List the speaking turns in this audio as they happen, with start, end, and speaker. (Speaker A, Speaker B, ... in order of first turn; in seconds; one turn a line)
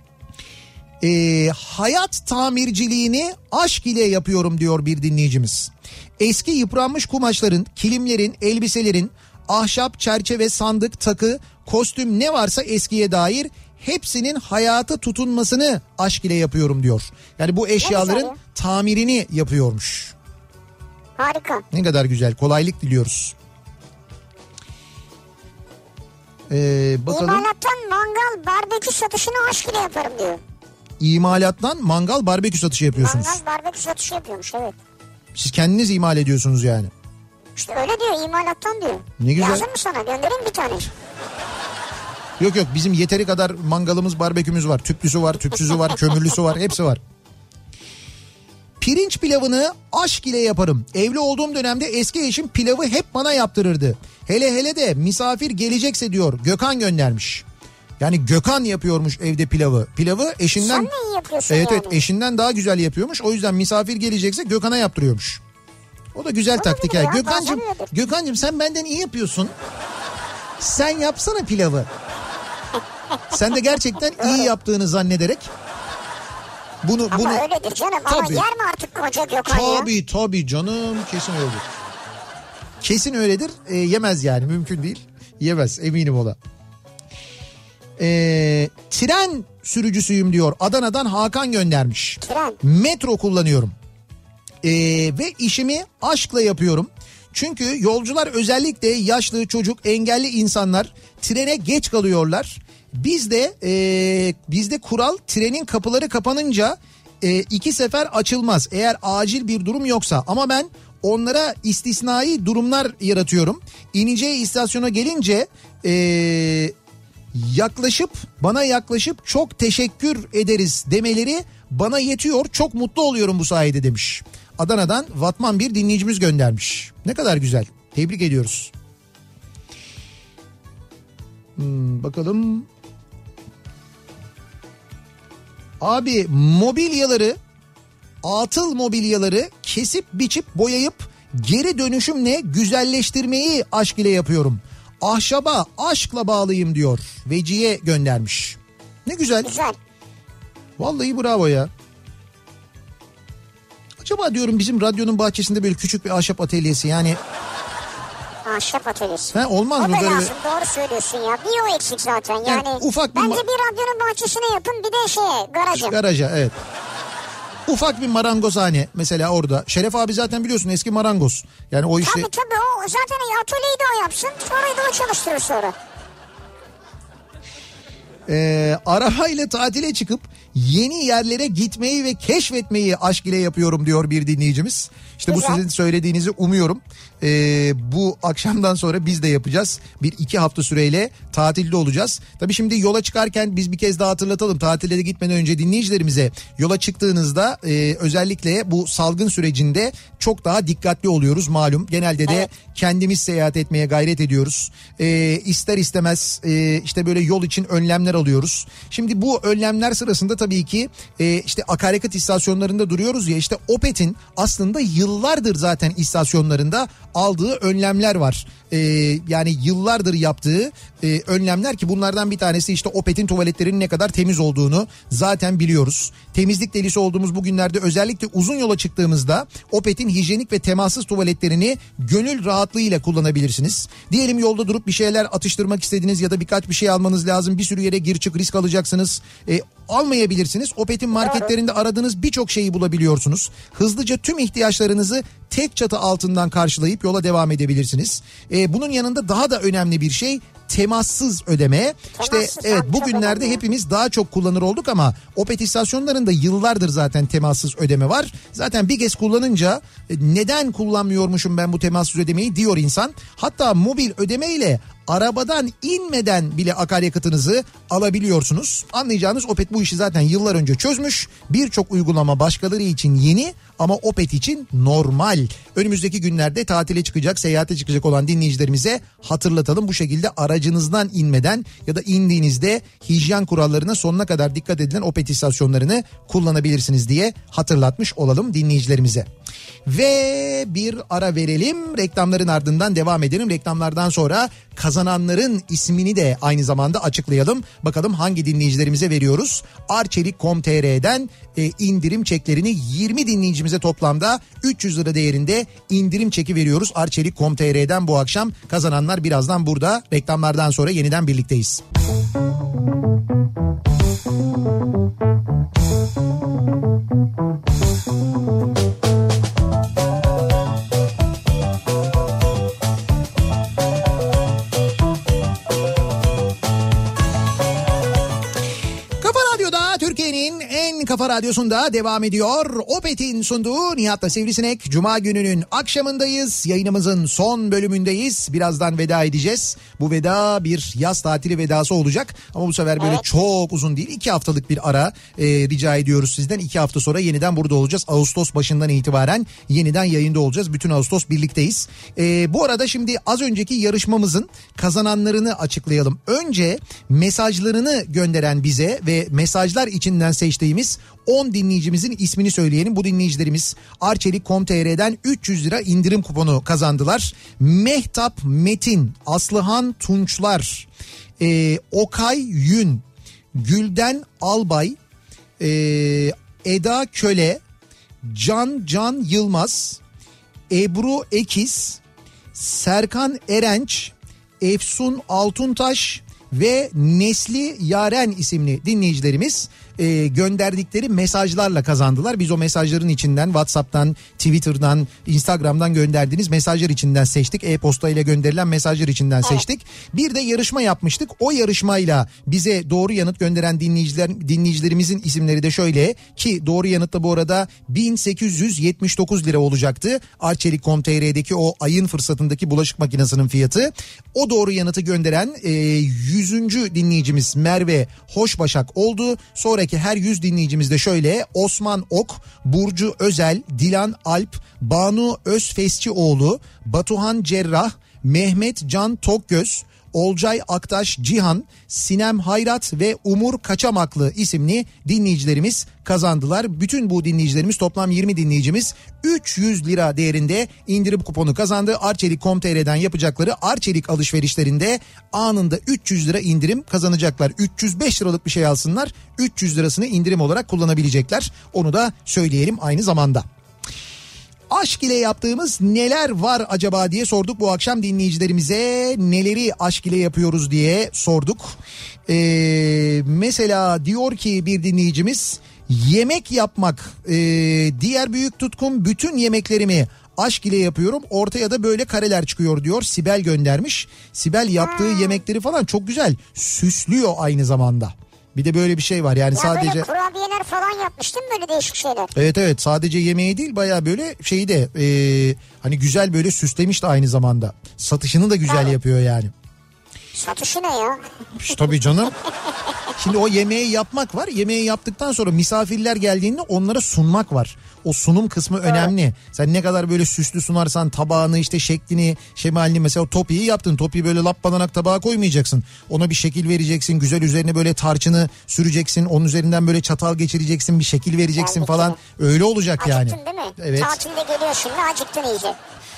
Speaker A: 1.0-20.1
Speaker B: 17.8-18.4
Speaker B: 21.2-21.6
Speaker A: 21.7-23.4
Speaker A: 26.5-27.5
Speaker B: 27.1-30.4
Speaker A: 31.0-33.4
Speaker B: 33.0-34.8
Speaker A: 35.4-36.9
Speaker B: 37.6-40.9
Speaker A: 39.2-39.7
Speaker A: 42.4-47.0
Speaker A: 48.8-57.4
Speaker A: 58.0-60.9
Speaker B: 60.6-62.0
Speaker A: 61.5-65.4
Speaker A: 66.2-69.5
Speaker B: 66.5-67.9
Speaker A: 70.6-71.9
Speaker A: 73.3-75.5
Speaker B: 74.2-74.5
Speaker A: 76.8-77.4
Speaker B: 77.1-79.9
Speaker A: 78.1-78.5
Speaker A: 79.5-81.7
Speaker A: 82.8-86.4
Speaker A: 88.0-93.7
Speaker B: 92.2-92.6
Speaker A: 94.6-116.7
Speaker A: 117.3-128.7
Speaker A: 131.6-132.7
Speaker A: 135.8-137.4
Speaker A: 138.2-149.5
Speaker B: 149.4-149.8
Speaker A: 150.8-151.7
Speaker A: 154.0-157.2
Speaker B: 158.4-165.9
Speaker A: 159.3-160.3
Speaker A: 162.4-163.4
Speaker A: 165.7-166.6
Speaker A: 167.7-172.3
Speaker B: 172.0-175.8
Speaker A: 178.3-289.3
Speaker B: 185.3-185.6
Speaker B: 241.2-241.5
Speaker B: 252.2-253.6
Speaker A: 289.9-311.8
Speaker A: 329.2-370.9
Speaker B: 343.0-343.2
Speaker A: 371.4-373.0
Speaker A: 373.6-375.0
Speaker A: 375.6-377.6
Speaker A: 378.2-380.0
Speaker A: 380.7-382.0
Speaker A: 382.5-453.4
Speaker A: 454.7-480.1
Speaker B: 474.8-475.4
Speaker B: 479.5-482.3
Speaker A: 482.3-489.5
Speaker B: 488.7-488.9
Speaker B: 490.3-491.2
Speaker A: 491.6-492.3
Speaker A: 493.2-514.2
Speaker B: 498.9-499.1
Speaker B: 511.6-512.2
Speaker B: 513.0-515.8